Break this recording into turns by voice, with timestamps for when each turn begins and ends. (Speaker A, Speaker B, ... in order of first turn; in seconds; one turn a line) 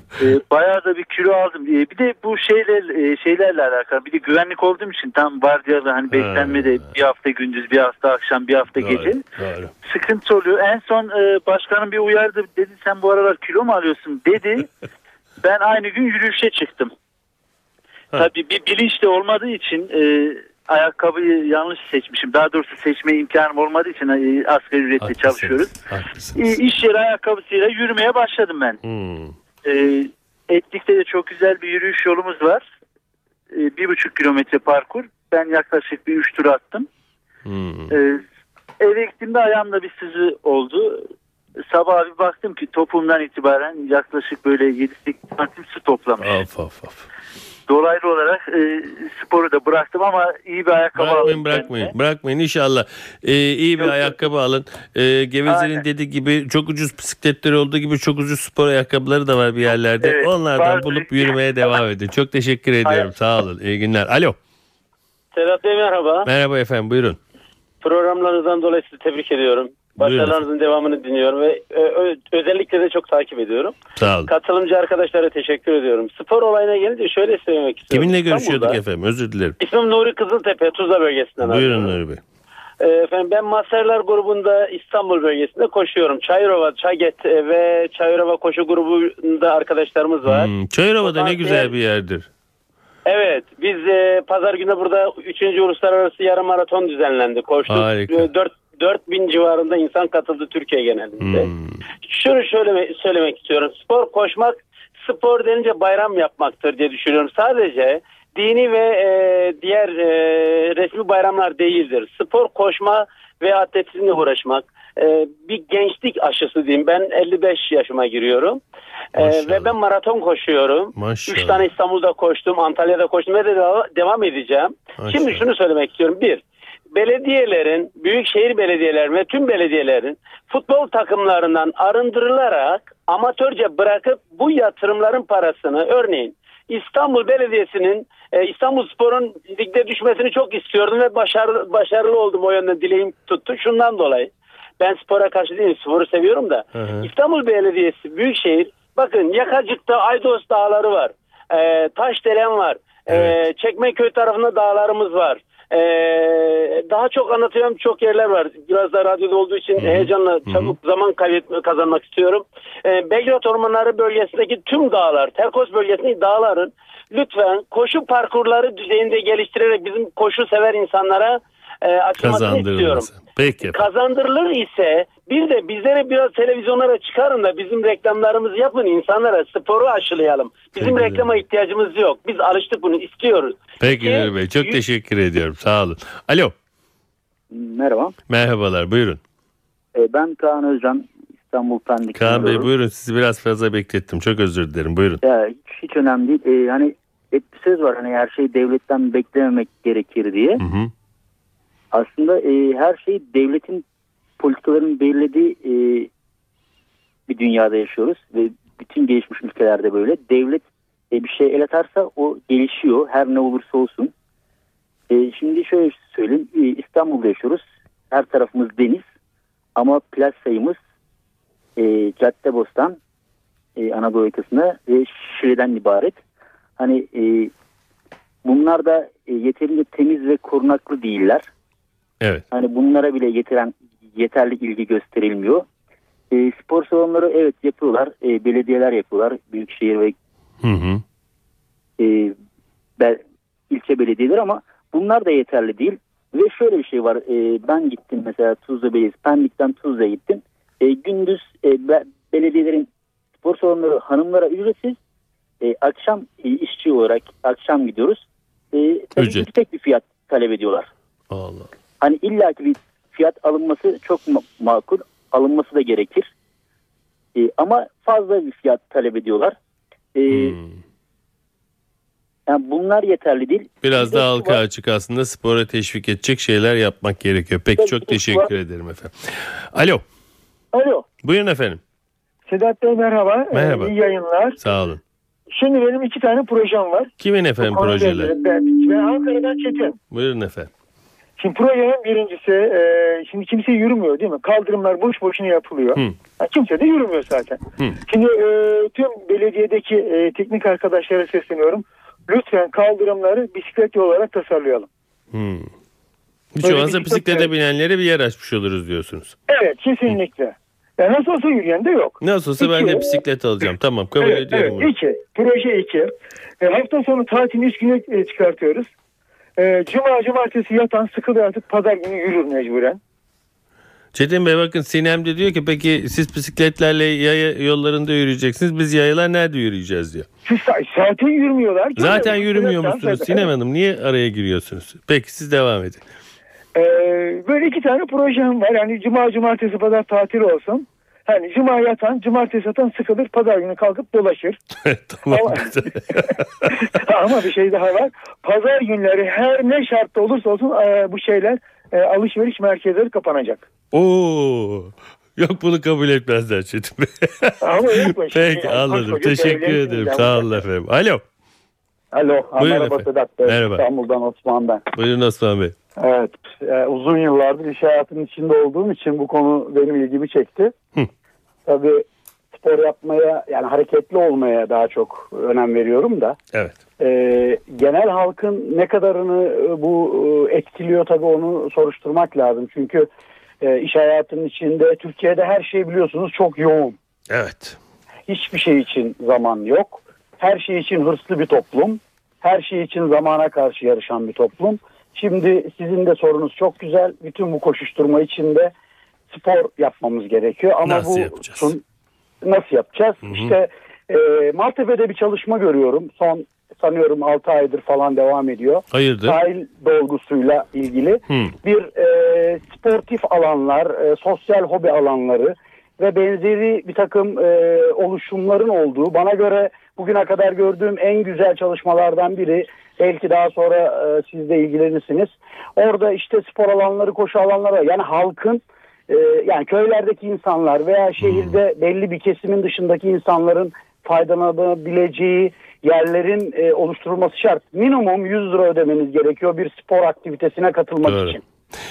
Speaker A: 0.2-9.2
Speaker B: 6.1-6.9
Speaker B: 8.8-9.7
Speaker A: 9.8-14.7
Speaker A: 15.4-16.9
Speaker A: 18.1-25.7
Speaker B: 25.0-26.4
Speaker A: 26.4-28.8
Speaker B: 28.9-29.3
Speaker A: 29.6-32.7
Speaker A: 33.5-36.9
Speaker B: 37.5-37.9
Speaker A: 37.9-38.2
Speaker A: 38.8-41.1
Speaker A: 41.7-46.4
Speaker B: 46.2-47.1
Speaker A: 47.7-51.9
Speaker B: 51.0-64.4
Speaker A: 53.8-54.2
Speaker A: 55.5-55.8
Speaker A: 60.0-61.4
Speaker C: 65.3-66.3
Speaker B: 66.2-67.2
Speaker C: 67.8-73.8
Speaker B: 70.0-70.4
Speaker B: 74.0-74.3
Speaker C: 74.3-78.8
Speaker B: 77.9-79.6
Speaker C: 79.6-81.9
Speaker B: 81.4-82.2
Speaker C: 82.8-90.5
Speaker B: 90.2-92.3
Speaker C: 91.0-91.7
Speaker C: 93.1-101.5
Speaker B: 97.7-98.3
Speaker B: 101.2-101.8
Speaker C: 102.0-118.6
Speaker B: 119.2-119.8
Speaker C: 119.2-126.4
Speaker B: 121.0-121.7
Speaker B: 125.0-125.5
Speaker C: 126.9-173.1
Speaker B: 146.8-147.1
Speaker B: 153.1-153.4
Speaker B: 159.8-160.8
Speaker B: 172.2-173.8
Speaker C: 173.6-184.8
Speaker B: 180.8-181.4
Speaker B: 183.8-186.5
Speaker D: 187.5-188.1
Speaker B: 188.3-189.2
Speaker D: 189.9-192.7
Speaker B: 192.1-195.2
Speaker D: 195.2-200.6
Speaker B: 200.6-200.9
Speaker D: 201.9-203.8
Speaker D: 204.4-206.1
Speaker D: 207.3-214.1
Speaker D: 215.1-219.0
Speaker D: 219.8-220.8
Speaker D: 221.8-223.0
Speaker D: 223.8-226.2
Speaker D: 226.8-227.5
Speaker D: 228.4-231.5
Speaker D: 232.5-235.7
Speaker D: 236.3-240.2
Speaker B: 240.6-241.0
Speaker D: 242.0-242.3
Speaker D: 243.0-252.9
Speaker D: 253.4-255.0
Speaker D: 255.6-260.9
Speaker B: 259.2-259.5
Speaker B: 261.3-261.7
Speaker D: 262.0-266.3
Speaker D: 267.4-269.6
Speaker D: 270.1-270.6
Speaker B: 270.3-270.8
Speaker D: 272.5-273.7
Speaker B: 273.8-280.0
Speaker E: 274.1-274.6
Speaker E: 277.8-278.5
Speaker E: 280.7-281.1
Speaker B: 281.2-281.8
Speaker E: 282.5-284.6
Speaker B: 283.5-283.9
Speaker B: 284.6-285.0
Speaker E: 285.5-290.0
Speaker B: 287.2-288.3
Speaker B: 290.1-290.7
Speaker E: 291.4-304.9
Speaker B: 305.3-305.7
Speaker B: 306.6-309.4
Speaker E: 306.6-307.5
Speaker E: 309.5-313.2
Speaker B: 312.2-314.9
Speaker E: 314.2-318.9
Speaker E: 319.6-323.0
Speaker B: 324.1-330.3
Speaker E: 330.4-333.5
Speaker B: 332.0-336.0
Speaker E: 336.7-344.6
Speaker B: 344.9-346.8
Speaker E: 345.3-353.7
Speaker B: 353.9-361.2
Speaker E: 357.6-360.6
Speaker F: 362.1-364.9
Speaker B: 362.6-363.9
Speaker B: 364.9-365.7
Speaker F: 366.0-370.7
Speaker F: 371.7-376.4
Speaker F: 377.0-383.1
Speaker F: 383.6-387.0
Speaker B: 387.3-387.8
Speaker F: 388.3-398.7
Speaker F: 399.3-401.8
Speaker B: 400.9-401.7
Speaker F: 402.4-441.4
Speaker B: 403.3-403.5
Speaker B: 408.9-409.4
Speaker B: 431.2-431.6
Speaker B: 441.1-441.4